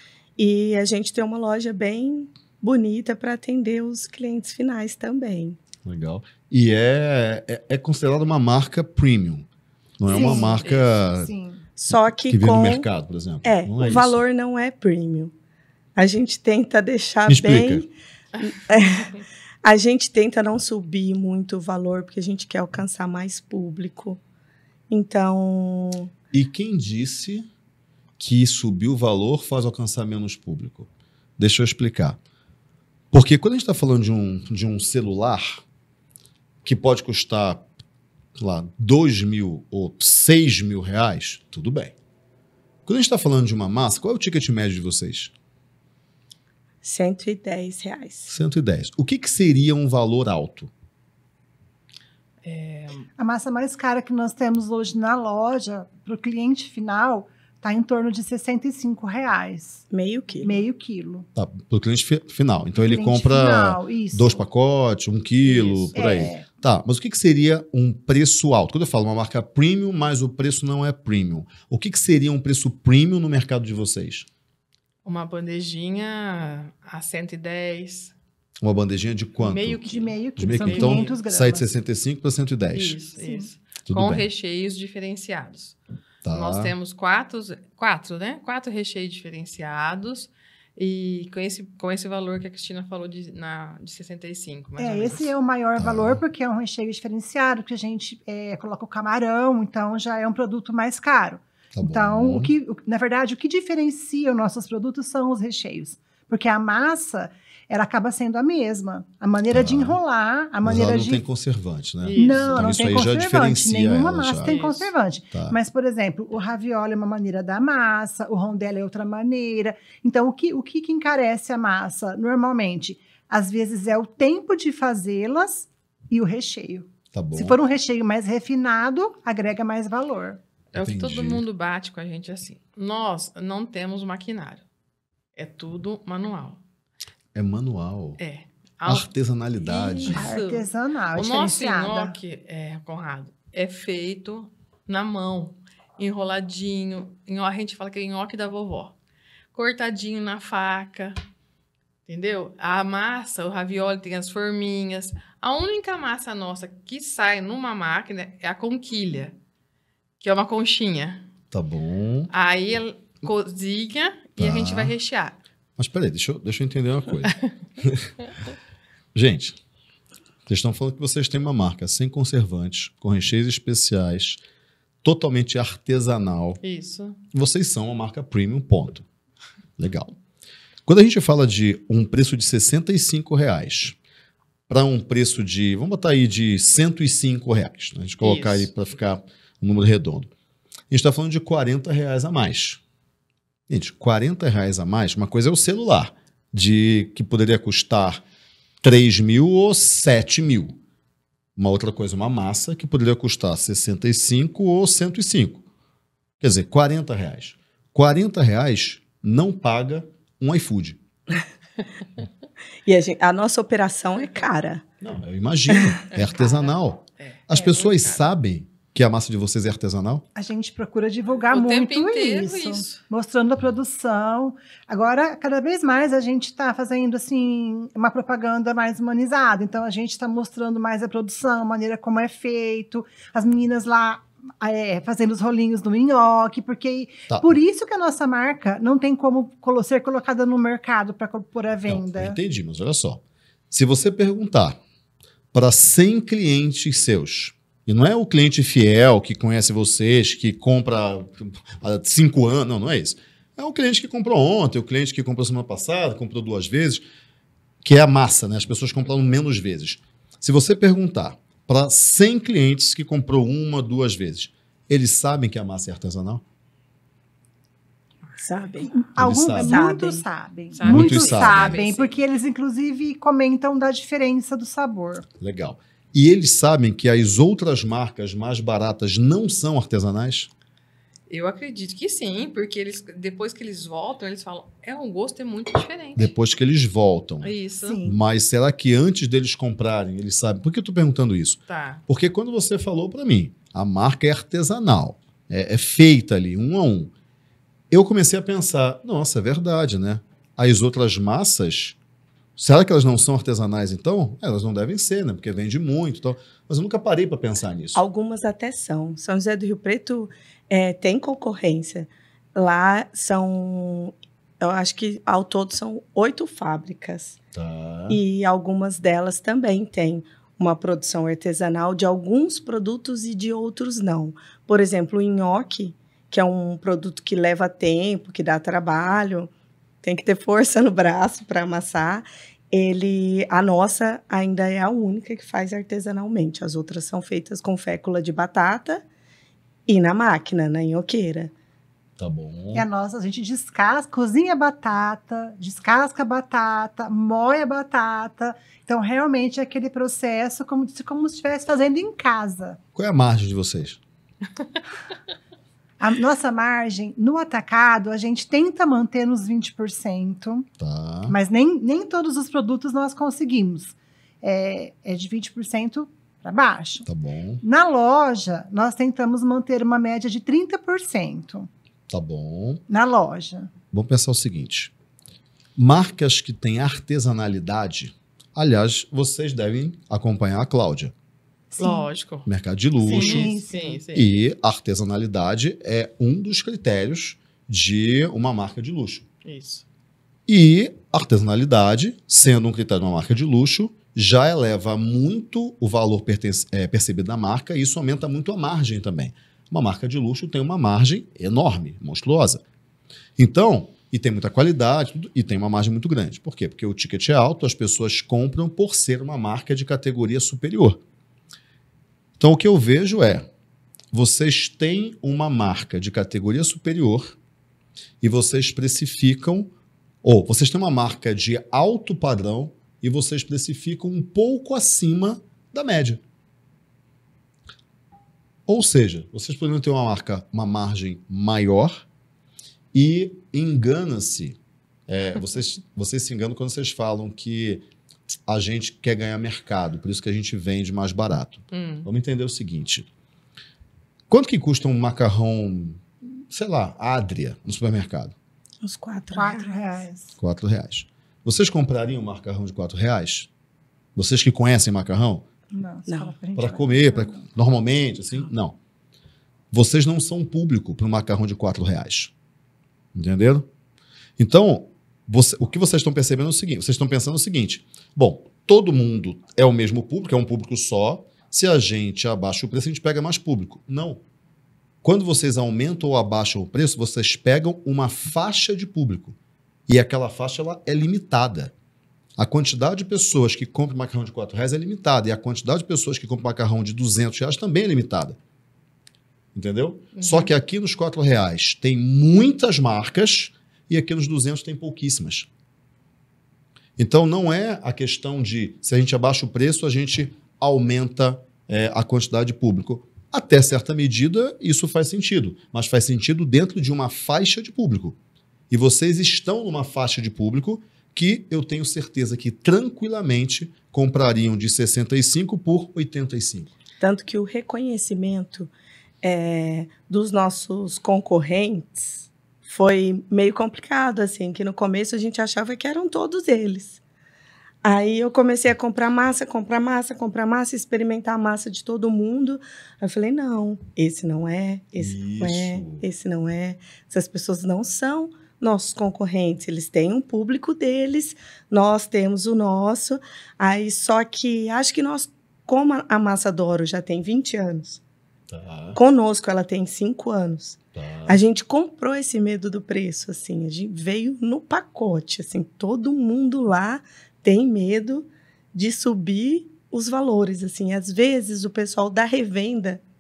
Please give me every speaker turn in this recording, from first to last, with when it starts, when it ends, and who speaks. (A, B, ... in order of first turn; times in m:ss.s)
0:00.4-0:05.6 A
0:05.8-0:09.5 B
0:10.0-0:11.3 B
0:10.1-0:10.6 C
0:10.3-0:11.0 D
0:11.2-0:11.6 C
0:11.8-0:12.9 A
0:12.2-0:14.2 B
0:13.4-0:15.3 A
0:16.0-0:17.9 A
0:17.3-0:17.8 B
0:18.4-0:24.2 A
0:24.9-0:26.1 A
0:26.3-0:27.5 B
0:28.2-0:32.2 B
0:33.1-0:35.6 B
0:36.6-0:37.7 B
0:38.4-0:41.9 B
0:42.9-0:45.3 B
0:46.8-0:48.3 A
0:48.3-0:50.7 B
0:52.4-0:53.1 D
0:53.2-0:59.8 C
0:59.9-1:00.6 A
1:00.4-1:01.3 C
1:01.4-1:14.3 B
1:02.8-1:04.4 C
1:05.4-1:06.0 D
1:06.0-1:06.5 C
1:15.0-1:18.1 D
1:18.6-1:23.0 B
1:19.4-1:21.2 D
1:19.9-1:21.7 C
1:22.7-1:25.8 D
1:23.2-1:23.5 C
1:23.9-1:24.3 B
1:26.2-1:26.7 B
1:26.3-1:35.3 D
1:34.8-1:51.2 C
1:35.8-1:36.2 B
1:41.7-1:42.5 B
1:49.5-1:50.0 B
1:50.6-1:54.6 B
1:52.0-1:53.0 D
1:52.2-2:10.4 C
1:54.4-1:54.9 D
2:07.1-2:07.6 B
2:10.7-2:11.4 B
2:10.7-2:14.6 D
2:15.4-2:16.6 D
2:17.4-2:18.2 B
2:18.2-2:29.0 D
2:18.9-2:20.3 B
2:20.1-2:22.2 C
2:29.5-2:31.2 D
2:32.1-2:39.4 D
2:40.2-2:41.2 D
2:41.5-2:42.3 B
2:42.3-2:45.4 D
2:44.4-2:45.0 B
2:45.8-2:48.1 B
2:49.1-2:49.6 B
2:50.5-2:54.4 B
2:55.0-2:56.6 B
2:56.6-2:57.2 D
2:57.3-2:59.1 B
2:59.8-3:00.1 B
3:00.9-3:04.0 B
3:04.7-3:10.3 B
3:08.2-3:08.7 D
3:10.9-3:12.8 B
3:13.7-3:18.2 B
3:18.8-3:20.8 B
3:21.6-3:25.6 B
3:26.4-3:31.0 B
3:32.9-3:34.8 A
3:35.0-3:40.2 B
3:36.1-3:38.3 D
3:40.4-4:02.4 C
3:41.5-3:43.0 D
3:57.3-3:57.6 B
4:01.9-4:04.8 B
4:05.5-4:17.0 B
4:17.8-4:26.4 B
4:28.4-4:30.2 A
4:29.1-4:35.3 C
4:29.2-4:29.8 B
4:30.7-4:32.2 D
4:30.8-4:31.8 B
4:35.4-4:40.5 B
4:41.3-4:46.3 D
4:46.2-4:47.5 B
4:47.4-4:48.0 D
4:47.8-4:48.2 C
4:48.0-4:57.1 B
4:51.7-4:52.0 D
4:57.9-5:02.0 B
5:02.6-5:08.0 B
5:08.0-5:17.4 A
5:17.5-5:18.2 B
5:18.1-5:29.5 A
5:30.0-5:39.0 A
5:39.9-5:41.5 A
5:42.2-5:42.9 B
5:42.7-5:52.8 C
5:53.0-5:54.0 B
5:56.0-6:00.7 C
6:00.8-6:01.4 B
6:01.3-6:07.1 C
6:07.1-6:07.6 B
6:07.6-6:11.7 C
6:12.1-6:12.8 B
6:12.9-6:13.7 C
6:13.9-6:14.9 B
6:15.8-6:21.1 B
6:21.7-6:22.1 C
6:21.8-6:22.5 D
6:22.5-6:29.3 B
6:23.0-6:24.0 C
6:23.0-6:24.3 D
6:29.4-6:29.8 D
6:30.5-6:42.6 B
6:43.4-6:51.0 B
6:52.4-6:53.5 B
6:54.1-6:57.4 B
6:58.2-6:59.7 B
7:00.2-7:06.2 B
7:08.7-7:12.0 B
7:12.9-7:17.8 B
7:18.5-7:23.1 B
7:21.7-7:22.1 D
7:24.3-7:28.3 B
7:28.8-7:29.8 A
7:29.3-7:30.3 C
7:30.4-7:33.5 B
7:34.2-7:35.4 B
7:35.7-7:37.4 C
7:36.1-7:36.3 A
7:36.6-7:38.8 B
7:39.7-7:42.3 B
7:43.1-7:43.7 B
7:44.4-7:54.2 B
7:55.0-7:59.4 B
7:59.9-8:01.7 B
8:02.4-8:08.4 B
8:09.6-8:15.5 B
8:10.2-8:10.5 D
8:17.0-8:28.2 B
8:28.7-8:36.7 B
8:37.0-8:38.7 A
8:39.2-8:47.0 A
8:47.8-9:08.0 A
8:55.0-8:56.0 B
9:08.5-9:09.0 B
9:09.0-9:23.0 A
9:10.9-9:11.4 B